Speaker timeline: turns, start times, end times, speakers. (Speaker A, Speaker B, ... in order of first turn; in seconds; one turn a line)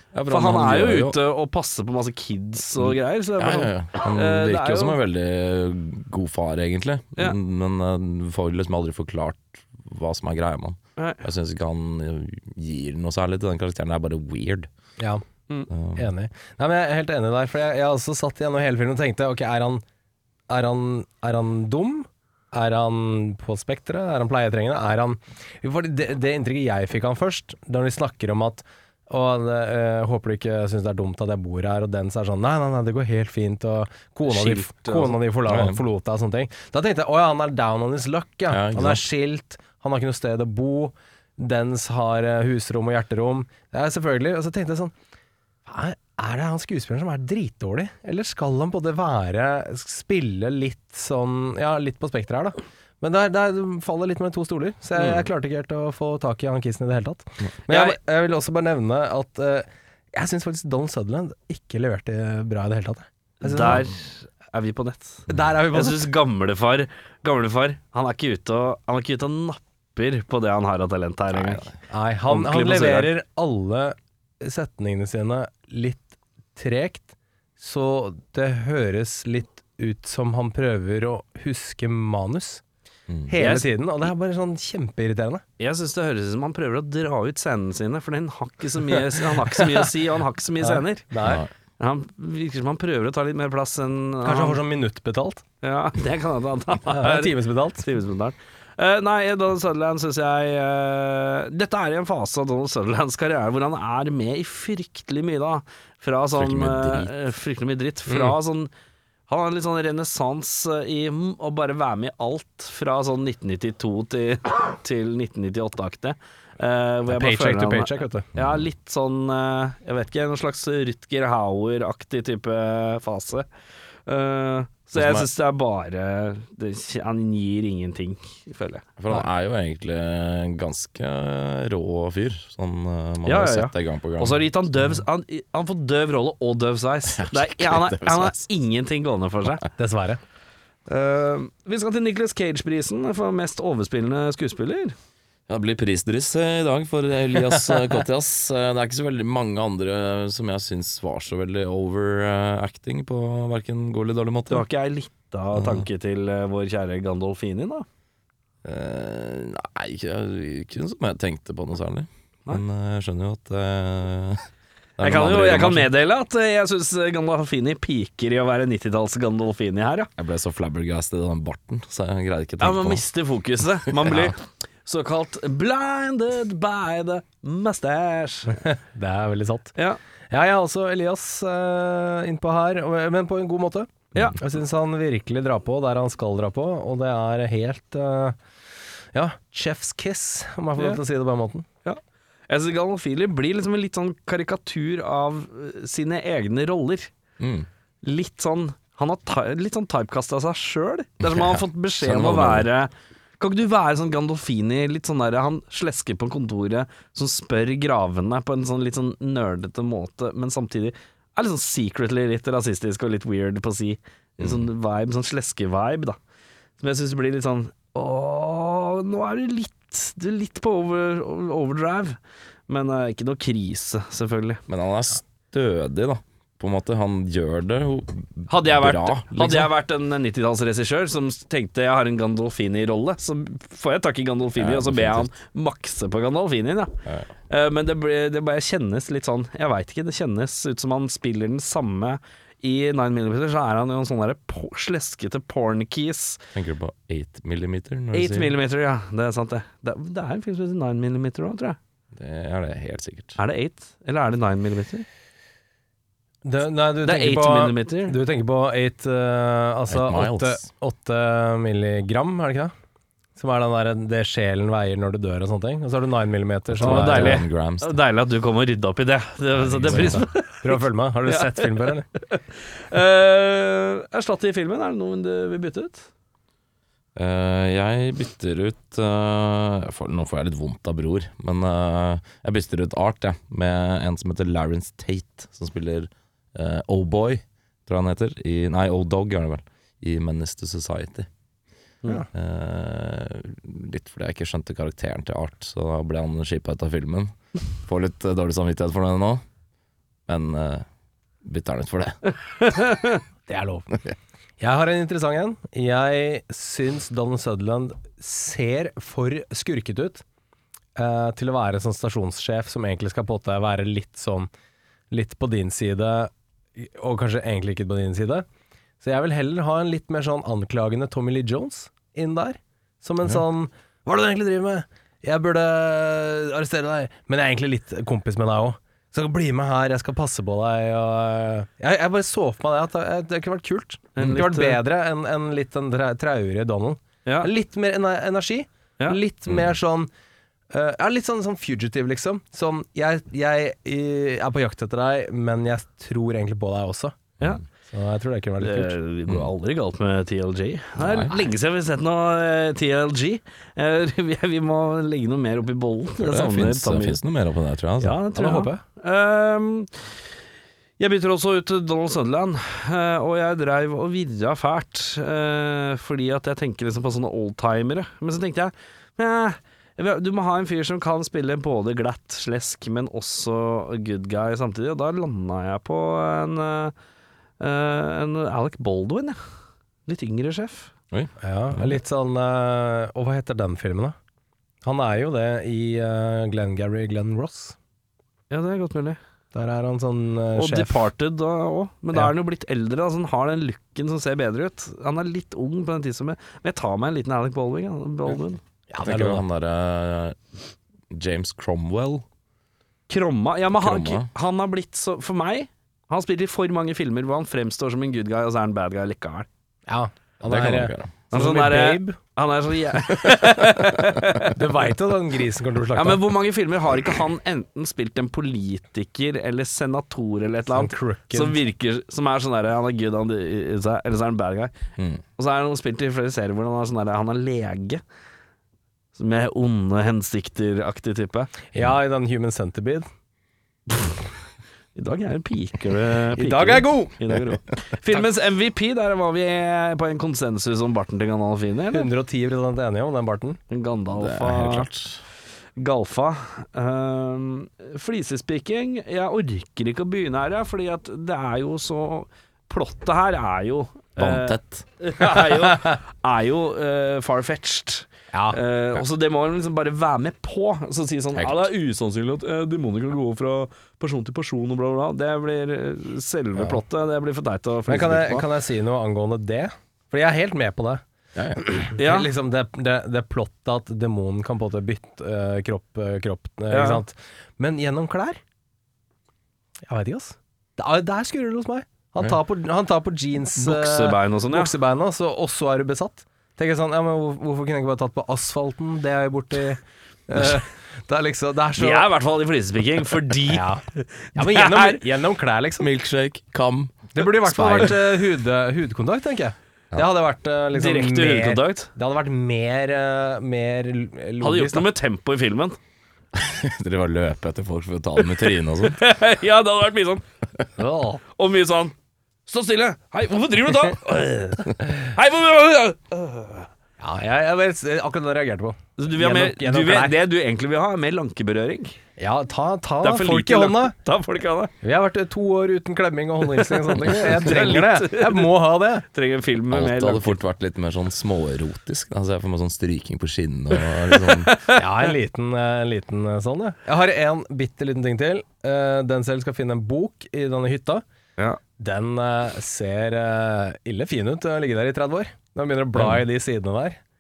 Speaker A: 0.1-1.2
Speaker B: 0.3-5.0
Speaker A: 2.8-14.7
Speaker B: 11.0-11.2
Speaker C: 15.0-15.2
Speaker A: 15.7-16.1
Speaker C: 16.0-19.8
Speaker C: 20.5-44.9
Speaker B: 34.3-35.2
Speaker A: 35.5-35.8
Speaker A: 38.5-39.0
Speaker C: 45.7-63.9
Speaker B: 55.0-55.2
Speaker B: 57.7-58.0
Speaker B: 63.4-71.7
Speaker C: 65.3-66.1
Speaker A: 71.3-71.8
Speaker C: 71.9-82.6
Speaker B: 72.3-73.1
Speaker C: 83.3-85.4
Speaker B: 83.4-83.7
Speaker B: 85.6-91.0
Speaker C: 89.4-89.9
Speaker C: 90.6-91.5
Speaker A: 91.2-91.5
Speaker B: 91.8-94.6
Speaker C: 94.2-95.5
Speaker B: 95.6-108.7
Speaker C: 96.9-97.9
Speaker A: 106.3-107.1
Speaker C: 108.1-108.3
Speaker B: 109.3-123.5
Speaker C: 117.1-118.3
Speaker A: 118.4-118.6
Speaker B: 124.1-129.2
Speaker A: 125.0-125.3
Speaker A: 129.0-135.0
Speaker B: 133.3-139.7
Speaker A: 137.2-138.4
Speaker C: 139.8-140.2
Speaker B: 140.9-144.9
Speaker A: 145.5-154.7
Speaker B: 154.5-157.9
Speaker A: 155.6-155.9
Speaker A: 158.6-164.4
Speaker A: 165.0-165.9
Speaker B: 165.0-170.1
Speaker A: 170.2-173.1
Speaker B: 172.6-178.7
Speaker A: 173.9-174.3
Speaker C: 178.5-179.7
Speaker C: 180.3-188.4
Speaker C: 189.1-191.7
Speaker B: 191.8-197.1
Speaker A: 197.4-197.7
Speaker B: 198.0-216.2
Speaker A: 201.3-202.7
Speaker A: 214.4-214.7
Speaker B: 216.8-224.6
Speaker A: 224.7-229.7
Speaker B: 228.5-237.0
Speaker A: 234.6-235.3
Speaker B: 237.5-246.5
Speaker A: 246.6-248.5
Speaker B: 248.1-251.8
Speaker A: 252.2-253.4
Speaker B: 253.4-255.1
Speaker C: 256.4-262.7
Speaker B: 257.0-258.2
Speaker A: 259.9-260.7
Speaker C: 263.4-267.4
Speaker A: 266.7-268.0
Speaker B: 266.8-271.6
Speaker A: 269.7-270.2
Speaker C: 269.9-272.1
Speaker B: 272.2-276.1
Speaker A: 277.2-291.3
Speaker A: 292.3-299.4
Speaker A: 300.3-300.9
Speaker A: 301.4-302.2
Speaker B: 302.6-303.2
Speaker C: 303.5-303.9
Speaker C: 304.6-310.2
Speaker C: 311.0-314.5
Speaker C: 315.1-318.5
Speaker C: 319.0-340.1
Speaker B: 334.2-334.8
Speaker C: 340.7-347.2
Speaker C: 347.9-349.0
Speaker B: 348.6-357.2
Speaker A: 351.0-351.4
Speaker A: 356.2-358.2
Speaker B: 358.0-360.0
Speaker C: 358.3-358.8
Speaker B: 361.0-376.9
Speaker B: 377.6-379.4
Speaker B: 380.1-380.9
Speaker A: 381.1-381.9
Speaker C: 381.4-384.2
Speaker C: 384.8-387.8
Speaker B: 388.5-389.2
Speaker C: 389.5-391.1
Speaker B: 390.6-398.6
Speaker C: 398.9-399.4
Speaker A: 399.0-400.4
Speaker A: 401.1-402.2
Speaker B: 403.1-409.5
Speaker A: 403.8-404.3
Speaker C: 409.9-412.2
Speaker A: 410.4-411.1
Speaker B: 411.3-414.6
Speaker C: 414.5-416.2
Speaker B: 415.9-424.7
Speaker C: 420.7-421.6
Speaker A: 425.0-425.2
Speaker B: 425.4-428.0
Speaker B: 429.1-431.5
Speaker C: 431.7-433.1
Speaker B: 433.9-434.2
Speaker B: 434.9-442.1
Speaker C: 436.4-437.2
Speaker C: 441.9-443.6
Speaker B: 443.7-444.9
Speaker A: 444.2-445.2
Speaker B: 445.8-468.5
Speaker A: 454.2-454.9
Speaker C: 458.3-458.6
Speaker A: 461.4-461.7
Speaker C: 467.9-471.0
Speaker A: 471.4-471.6
Speaker C: 471.6-478.4
Speaker B: 472.0-472.3
Speaker B: 476.7-477.0
Speaker C: 479.9-492.1
Speaker B: 483.6-484.7
Speaker B: 491.8-495.0
Speaker C: 493.5-493.8
Speaker C: 494.4-495.9
Speaker A: 495.8-497.9
Speaker C: 497.1-504.9
Speaker B: 500.7-501.9
Speaker B: 504.4-505.8
Speaker A: 506.4-509.0
Speaker B: 508.8-510.2
Speaker C: 510.8-511.2
Speaker B: 511.2-511.9
Speaker B: 512.5-516.7
Speaker C: 517.0-520.2
Speaker B: 519.0-522.0
Speaker C: 522.2-524.0
Speaker B: 523.0-524.7
Speaker C: 524.8-529.0
Speaker B: 526.6-528.5
Speaker B: 529.1-530.4
Speaker A: 529.7-534.6
Speaker B: 534.1-534.8
Speaker C: 534.7-541.0
Speaker C: 541.8-547.0